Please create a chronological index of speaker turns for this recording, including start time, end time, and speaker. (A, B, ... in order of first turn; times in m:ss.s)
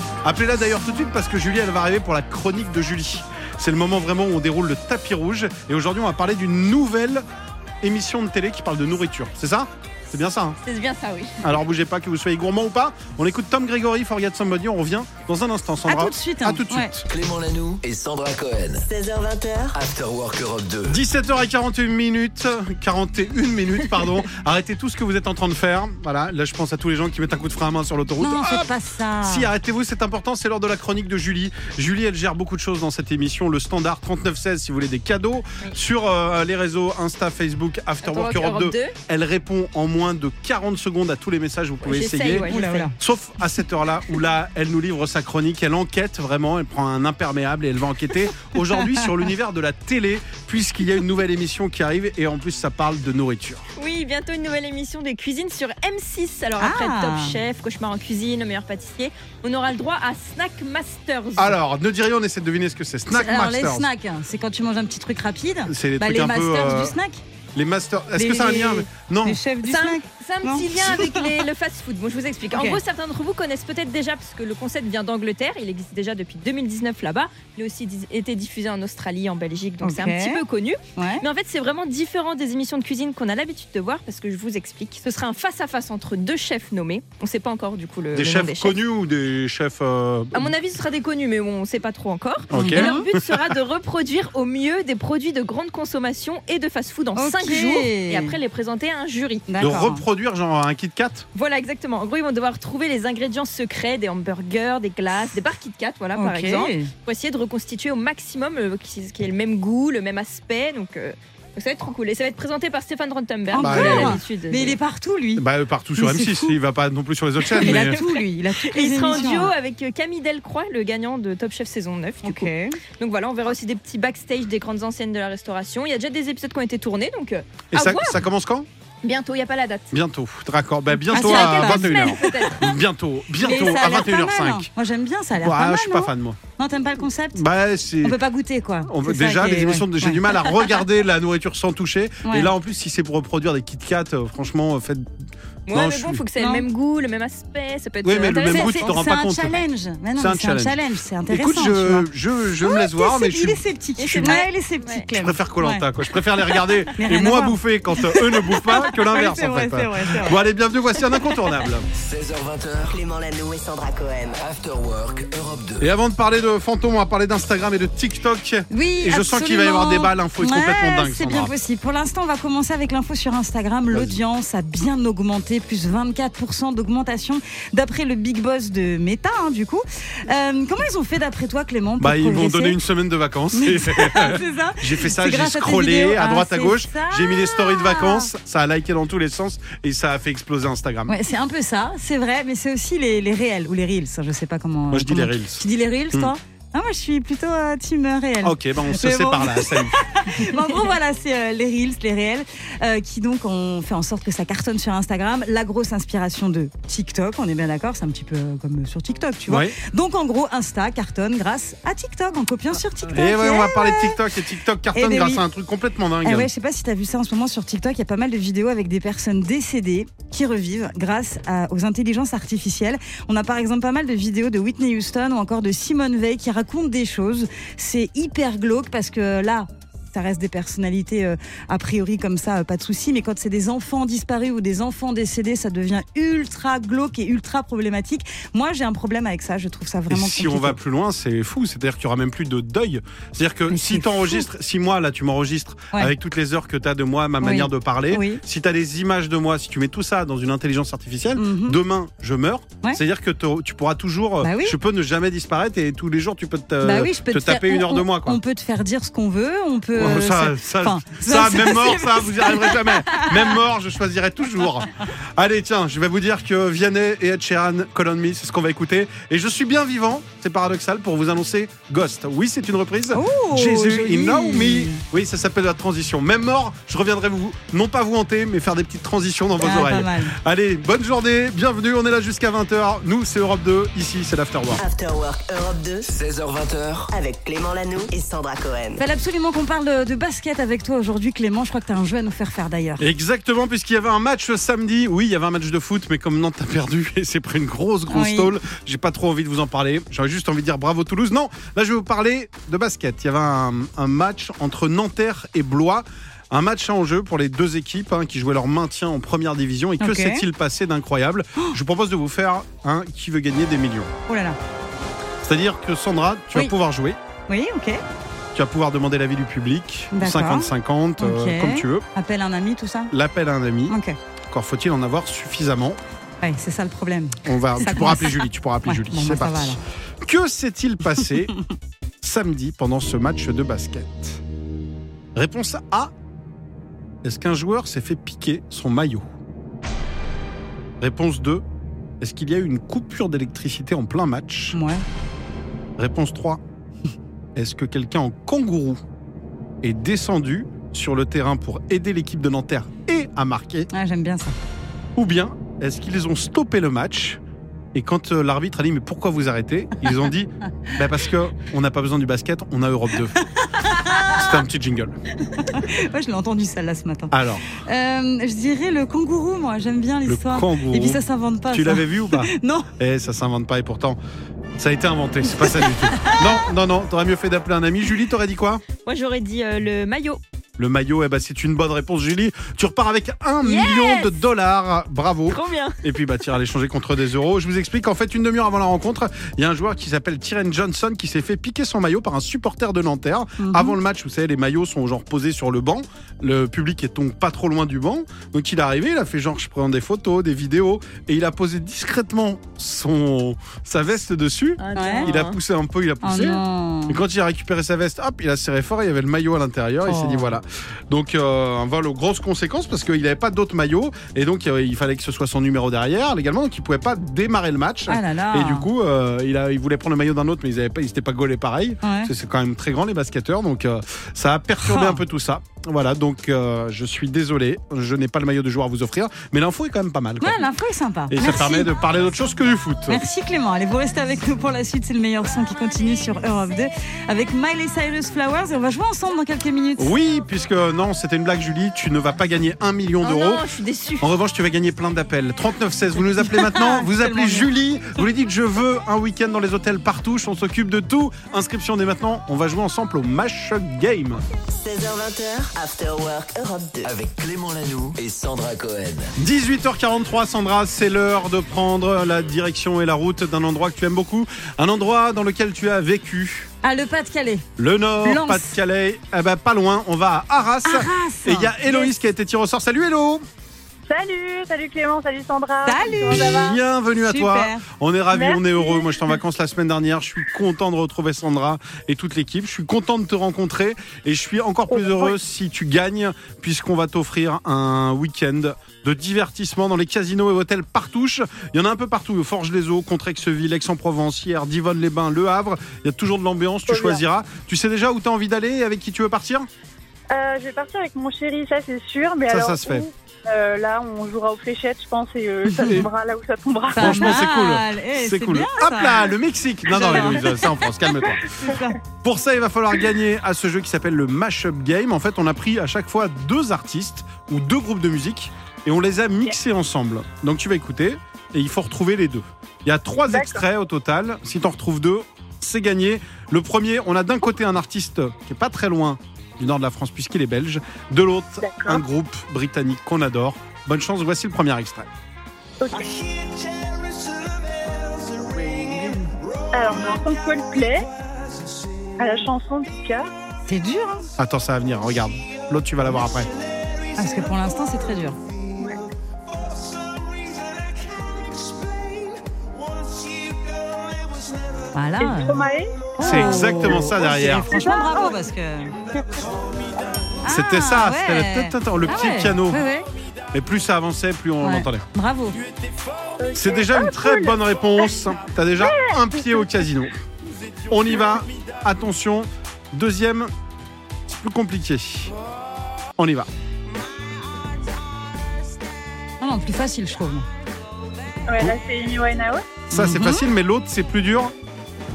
0:00.2-0:07.2 A
0:07.8-0:10.6 A
0:10.6-0:11.5 B
0:11.4-0:17.1 A
0:15.9-0:16.9 C
0:17.1-0:18.8 D
0:18.8-0:19.8 E
0:19.8-0:21.0 D
0:20.9-0:28.7 A
0:28.2-0:29.5 C
0:29.2-0:53.7 A
0:38.0-0:38.9 B
0:41.8-0:42.9 B
0:42.4-0:42.9 C
0:53.8-1:01.6 B
0:56.6-0:57.4 C
1:01.4-1:03.9 A
1:03.1-1:07.2 C
1:05.7-1:06.9 A
1:07.5-1:09.4 A
1:08.2-1:11.3 C
1:09.6-1:28.8 B
1:12.5-1:12.8 C
1:19.8-1:20.4 C
1:21.0-1:21.2 C
1:28.1-1:30.5 A
1:30.3-1:39.5 B
1:32.5-1:33.5 A
1:32.5-1:33.0 C
1:37.1-1:38.4 C
1:39.5-1:40.0 C
1:39.6-1:41.2 A
1:41.3-1:54.8 B
1:46.2-1:46.9 C
1:53.5-1:55.4 C
1:53.6-1:54.2 A
1:55.4-1:58.0 A
1:56.0-1:56.5 C
1:57.5-1:59.5 C
1:57.6-2:08.2 B
2:02.2-2:02.8 C
2:07.7-2:08.7 A
2:09.0-2:09.9 B
2:09.9-2:14.7 A
2:11.0-2:12.7 B
2:11.1-2:12.5 C
2:13.4-2:17.4 C
2:15.4-2:16.4 A
2:17.3-2:18.2 A
2:18.0-2:20.3 C
2:18.8-2:25.2 A
2:22.2-2:22.5 C
2:25.7-2:29.0 B
2:25.7-2:26.2 A
2:26.4-2:26.6 C
2:28.0-2:29.6 A
2:28.5-2:32.1 C
2:30.2-2:34.4 A
2:32.6-2:35.8 C
2:34.0-2:35.0 B
2:35.2-2:41.9 A
2:36.9-2:40.4 C
2:41.9-2:43.0 D
2:42.9-2:44.4 E
2:44.4-2:45.9 D
2:45.8-2:51.5 A
2:48.7-3:02.8 C
3:02.0-3:11.1 A
3:03.6-3:08.3 C
3:11.1-3:34.2 C
3:14.9-3:16.3 A
3:18.4-3:20.5 A
3:29.5-3:29.8 A
3:33.0-3:36.5 A
3:34.9-3:35.4 C
3:36.2-4:00.8 C
4:00.1-4:18.4 A
4:03.7-4:04.4 C
4:07.4-4:08.4 C
4:11.4-4:11.8 C
4:14.4-4:14.8 C
4:16.8-4:23.6 C
4:19.9-4:44.8 A
4:33.1-4:35.0 C
4:39.6-4:40.4 C
4:44.8-4:46.1 E
4:46.1-4:47.1 D
4:47.1-4:49.0 E
4:49.0-4:53.0 C
4:53.0-5:14.1 A
4:58.1-4:58.5 C
5:10.0-5:10.4 C
5:14.3-5:14.6 C
5:15.4-5:17.2 A
5:17.5-5:18.0 C
5:18.5-5:22.0 A
5:20.1-5:23.1 C
5:23.1-5:24.0 A
5:23.9-5:24.2 C
5:24.5-5:26.0 A
5:26.4-5:29.8 C
5:27.4-5:31.5 A
5:32.2-5:34.4 A
5:35.4-5:36.1 A
5:37.2-5:39.2 A
5:41.0-5:41.6 A
5:42.2-5:44.8 A
5:44.7-5:45.0 C
5:46.0-5:46.6 A
5:47.6-5:49.0 A
5:49.8-5:53.9 A
5:53.9-5:54.6 C
5:55.2-5:57.4 A
5:57.9-6:03.4 A
6:03.4-6:04.6 C
6:04.1-6:05.2 A
6:05.6-6:12.9 C
6:07.3-6:07.6 A
6:10.2-6:14.2 A
6:14.8-6:18.8 A
6:16.2-6:16.5 C
6:19.0-6:20.4 B
6:20.8-7:10.6 A
6:23.6-6:24.4 B
6:25.5-6:26.0 B
6:33.6-6:34.0 C
6:44.8-6:45.6 B
6:44.9-6:45.3 C
6:46.2-6:47.2 C
6:50.0-6:50.6 C
6:58.1-6:58.9 C
7:02.0-7:02.3 C
7:04.8-7:05.2 C
7:10.4-7:11.9 C
7:11.3-7:13.2 A
7:13.1-7:20.1 C
7:20.0-7:23.6 A
7:23.2-7:24.3 B
7:24.2-7:34.4 A
7:26.4-7:27.7 C
7:34.8-7:37.1 E
7:37.0-7:39.3 D
7:39.4-7:46.7 A
7:46.8-7:47.6 C
7:47.8-7:53.4 A
7:48.2-7:48.8 C
7:50.8-7:52.1 C
7:54.1-7:56.8 F
7:55.8-7:56.6 C
7:56.3-8:19.7 A
7:57.2-7:57.8 C
7:58.3-7:59.1 F
8:04.9-8:05.4 F
8:16.9-8:17.2 F
8:20.3-8:27.3 F
8:22.5-8:23.1 A
8:25.8-8:26.1 A
8:26.9-8:29.3 C
8:26.9-8:55.1 A
8:29.9-8:30.7 C
8:30.2-8:30.5 F
8:31.3-8:31.8 F
8:31.6-8:32.0 C
8:43.3-8:43.6 F
8:51.6-8:52.0 F
8:55.8-8:56.1 F
8:59.7-9:01.1 F
9:02.2-9:03.3 F
9:03.7-9:04.3 C
9:04.4-9:06.5 A
9:07.1-9:08.4 C
9:08.8-9:09.0 F
9:14.9-9:15.7 C
9:15.2-9:17.1 F
9:16.2-9:18.9 C
9:16.2-9:17.8 A
9:17.7-9:18.4 F
9:20.4-9:23.0 C
9:20.5-9:22.8 A
9:23.5-9:25.0 A
9:24.6-9:25.6 C
9:26.4-9:28.1 F
9:26.5-9:30.2 A
9:28.8-9:29.9 F
9:30.9-9:33.5 A
9:34.3-9:35.3 A
9:36.2-9:36.5 A
9:39.4-9:40.4 C
9:41.5-9:42.6 F
9:42.9-9:44.5 A
9:42.9-9:43.5 C